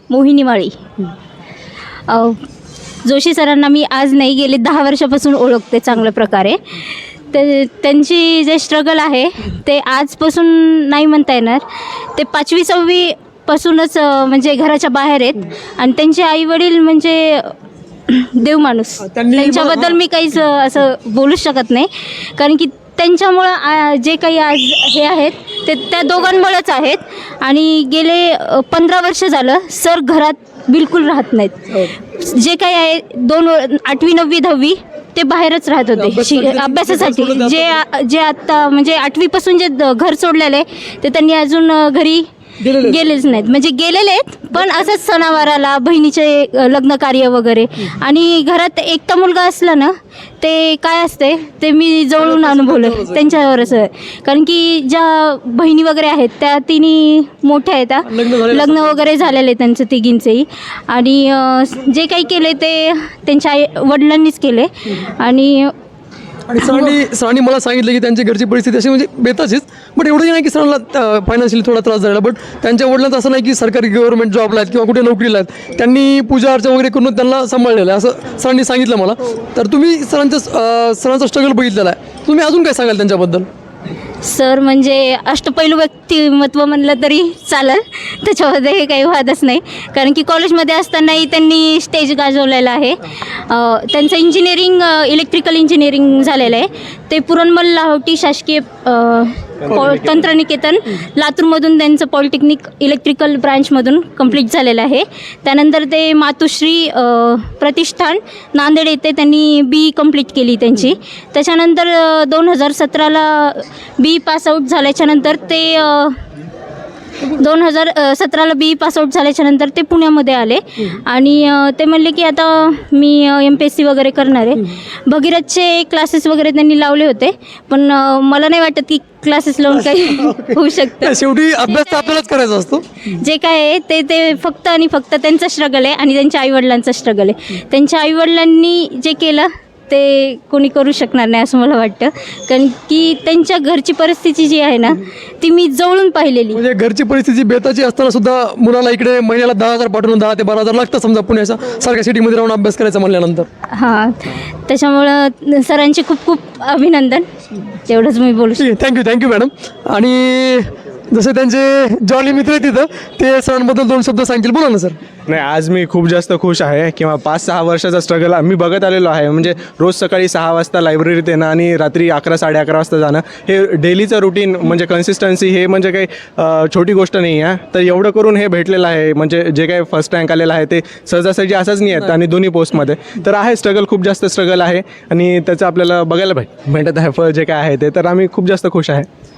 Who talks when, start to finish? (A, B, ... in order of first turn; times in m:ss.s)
0:00.1-0:00.8 A
0:02.1-0:02.4 A
0:03.0-0:06.8 A
0:07.3-0:17.5 A
0:18.1-1:05.7 A
0:19.0-0:20.0 B
0:36.0-0:37.8 B
0:42.6-0:43.0 B
0:52.2-0:53.5 B
0:58.1-0:59.0 B
1:06.5-1:23.5 B
1:24.2-1:56.2 A
1:39.6-1:40.2 C
1:57.2-2:12.2 A
2:10.0-2:12.8 B
2:13.1-2:26.6 A
2:26.5-2:33.5 B
2:33.7-2:37.3 A
2:37.8-2:38.6 A
2:38.6-2:45.0 B
2:45.3-3:09.1 C